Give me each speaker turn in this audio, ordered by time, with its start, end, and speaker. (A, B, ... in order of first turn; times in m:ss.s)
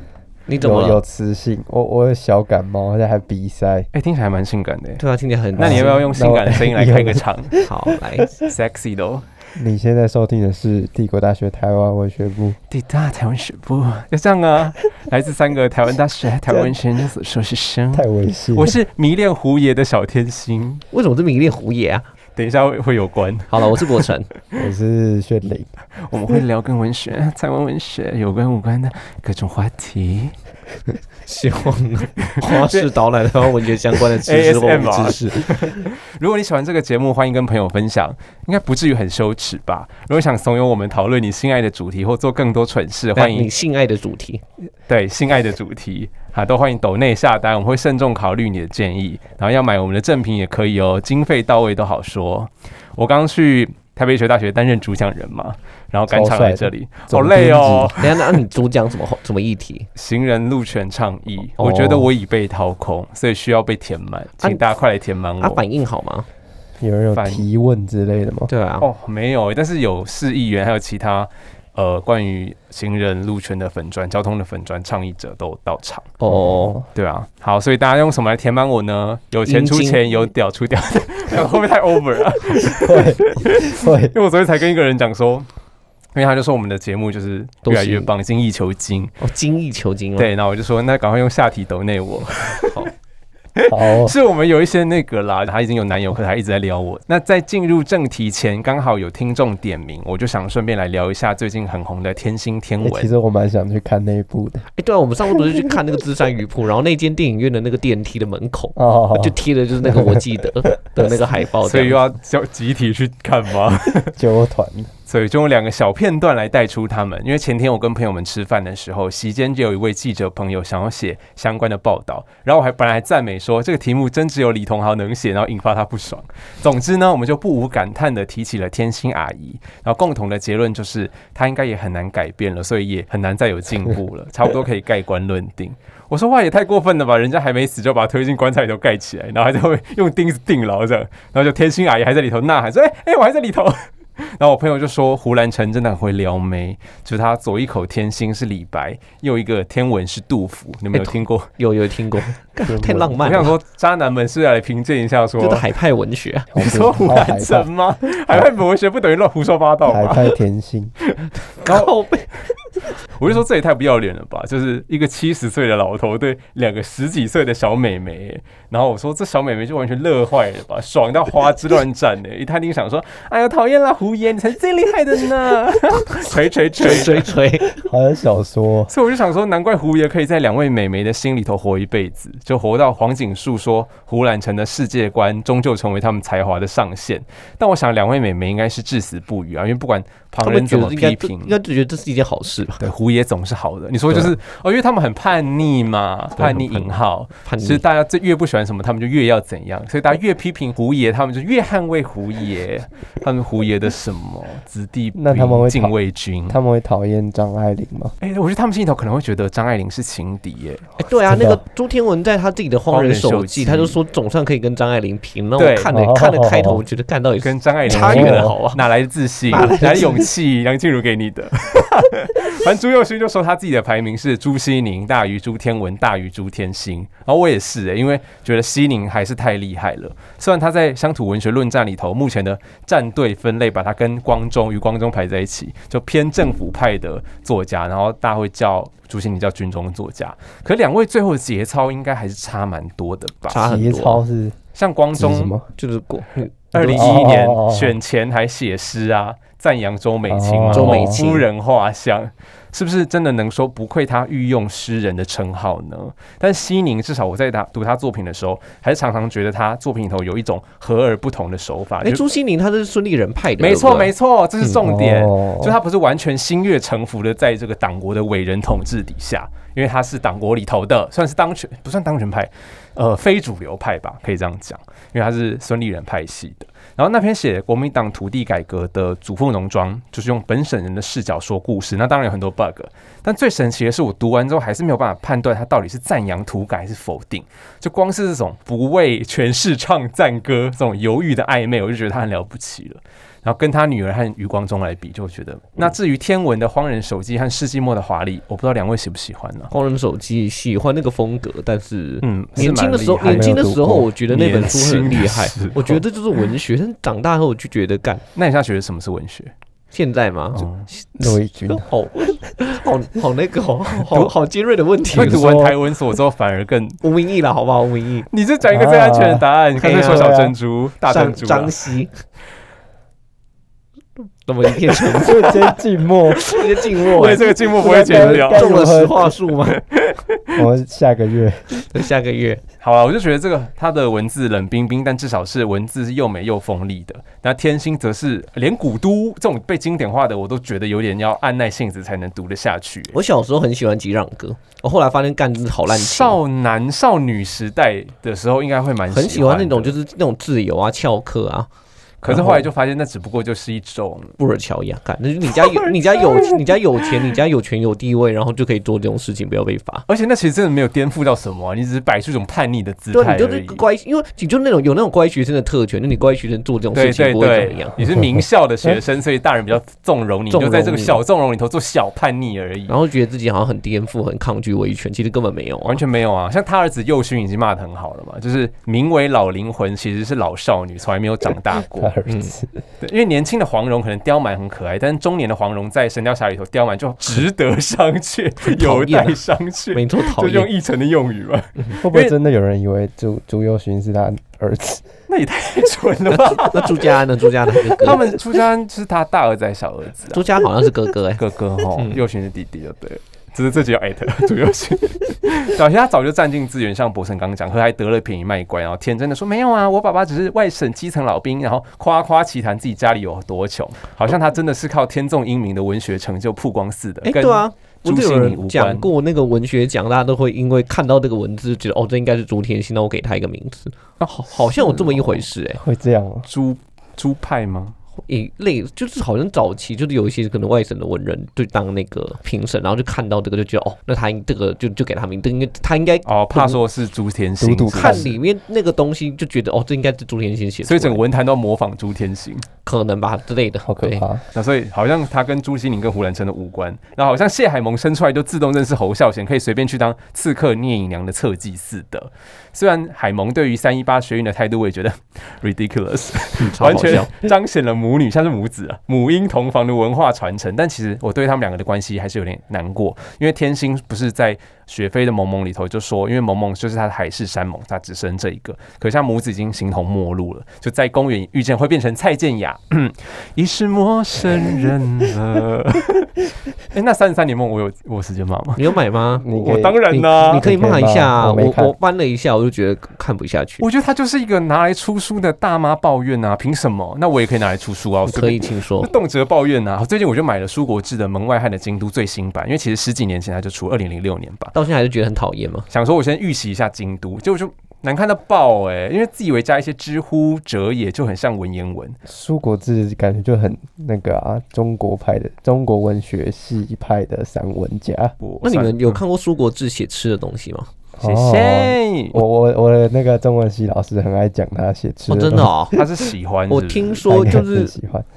0:00.5-0:01.0 A
0:00.6-0:03.9 B
0:03.9-0:05.0 C
0:05.0-0:06.0 A
0:05.6-0:07.6 C
0:05.6-0:07.6 B
0:07.6-0:08.3 A
0:08.3-0:09.3 C
0:09.6-0:12.6 B
0:12.7-0:20.8 C
0:16.4-0:16.8 B
0:17.9-0:18.8 B
0:20.9-0:22.0 A
0:22.4-0:24.0 C
0:23.5-0:24.3 A
0:24.6-0:25.7 B
0:26.0-0:30.4 C
0:31.2-0:35.8 A
0:32.2-0:32.9 C
0:33.4-0:43.5 C
0:43.1-0:44.4 A
0:44.9-0:58.4 C
0:56.1-0:57.9 B
0:58.0-0:59.9 A
1:00.0-1:05.6 C
1:01.6-1:02.1 A
1:05.4-1:06.3 A
1:06.8-1:08.5 B
1:07.1-1:07.4 C
1:08.5-1:08.9 A
1:08.8-1:16.2 C
1:16.2-1:16.8 A
1:16.5-1:16.8 B
1:16.9-1:25.5 C
1:19.4-1:20.0 A
1:22.8-1:24.1 B
1:26.1-1:29.2 C
1:27.6-1:28.1 A
1:29.2-1:30.3 A
1:30.2-1:32.9 C
1:33.6-1:43.1 C
1:33.7-1:34.1 B
1:42.8-1:44.6 B
1:44.8-1:52.1 A
1:48.8-1:50.2 B
1:51.6-1:54.2 C
1:54.0-1:54.9 B
1:55.1-2:31.5 C
2:30.9-2:33.5 A
2:32.7-2:33.2 B
2:33.1-2:35.7 C
2:35.4-2:36.7 A
2:36.5-2:37.7 B
2:36.6-2:40.4 C
2:39.8-2:40.9 B
2:41.1-2:41.9 C
2:41.6-2:42.3 A
2:43.1-2:57.3 C
2:56.8-2:57.8 A
2:57.7-2:58.9 B
2:58.9-3:11.6 C
3:10.4-3:12.8 A
3:12.8-3:26.6 C
3:16.4-3:17.8 A
3:25.1-3:25.9 B
3:26.5-3:28.1 B
3:28.2-3:30.9 C
3:31.0-3:38.8 A
3:31.3-3:31.6 B
3:32.9-3:34.0 C
3:35.6-3:35.9 C
3:35.9-3:36.8 B
3:37.4-4:03.6 C
3:37.9-3:38.5 B
3:39.5-3:40.3 A
3:39.6-3:40.2 B
4:03.5-4:04.2 A
4:03.5-4:04.6 B
4:04.7-4:05.5 C
4:05.1-4:05.7 B
4:05.8-4:07.3 A
4:06.7-4:22.2 C
4:06.7-4:07.9 B
4:10.3-4:11.3 B
4:10.7-4:11.4 A
4:22.0-4:24.8 A
4:23.6-4:59.7 C
4:24.8-4:25.8 B
4:59.7-5:08.2 A
5:02.2-5:03.7 C
5:03.2-5:04.1 B
5:04.3-5:06.0 C
5:08.3-5:09.5 C
5:09.9-5:15.5 A
5:10.5-5:10.9 C
5:11.2-5:11.9 B
5:15.1-5:15.8 B
5:15.1-5:17.0 C
5:17.0-5:18.3 A
5:18.3-5:21.8 C
5:18.7-5:19.5 B
5:19.8-5:20.5 A
5:20.0-5:20.5 B
5:21.0-5:22.1 A
5:24.4-5:25.7 A
5:25.1-5:26.5 B
5:26.4-5:29.8 A
5:27.0-5:28.8 C
5:27.8-5:29.3 B
5:29.8-5:30.6 C
5:30.5-5:31.8 B
5:31.7-5:32.6 A
5:32.8-5:43.2 C
5:43.1-5:46.4 A
5:45.9-5:50.0 C
5:49.1-5:51.7 A
5:52.2-5:54.4 C
5:52.3-5:52.6 A
5:54.4-6:00.0 A
5:55.5-5:57.3 C
6:00.1-6:03.8 C
6:03.1-6:08.0 A
6:06.9-6:13.0 C
6:10.5-6:11.2 A
6:12.9-6:16.0 A
6:15.8-6:22.2 C
6:21.9-6:22.6 B
6:22.3-6:22.5 A
6:23.0-6:32.3 C
6:28.6-6:29.4 A
6:29.9-6:30.7 A
6:32.0-6:35.0 B
6:35.3-6:59.1 C
6:36.3-6:38.2 A
6:40.3-6:41.4 A
6:41.9-6:42.2 A
6:57.2-7:05.8 A
7:04.2-7:05.4 C
7:05.8-7:06.4 B
7:06.5-7:08.0 C
7:08.3-7:16.8 A
7:16.2-7:18.3 C
7:17.6-7:18.3 B
7:17.9-7:21.2 A
7:20.8-7:22.7 C
7:22.8-7:24.2 A
7:23.8-7:24.4 B
7:24.5-8:00.7 C
7:36.6-7:37.3 A
7:58.8-7:59.4 A
7:59.4-8:02.0 B
8:00.1-8:03.8 A
8:03.8-8:14.7 C
8:08.2-8:09.1 A
8:14.7-8:15.9 A
8:15.9-8:22.2 C
8:22.2-8:28.4 B
8:28.4-8:29.2 C
8:28.6-8:30.9 A
8:31.2-8:36.0 B
8:31.2-8:32.4 C
8:35.3-8:36.0 A
8:35.9-8:37.2 C
8:36.7-8:37.9 A
8:37.3-8:38.2 B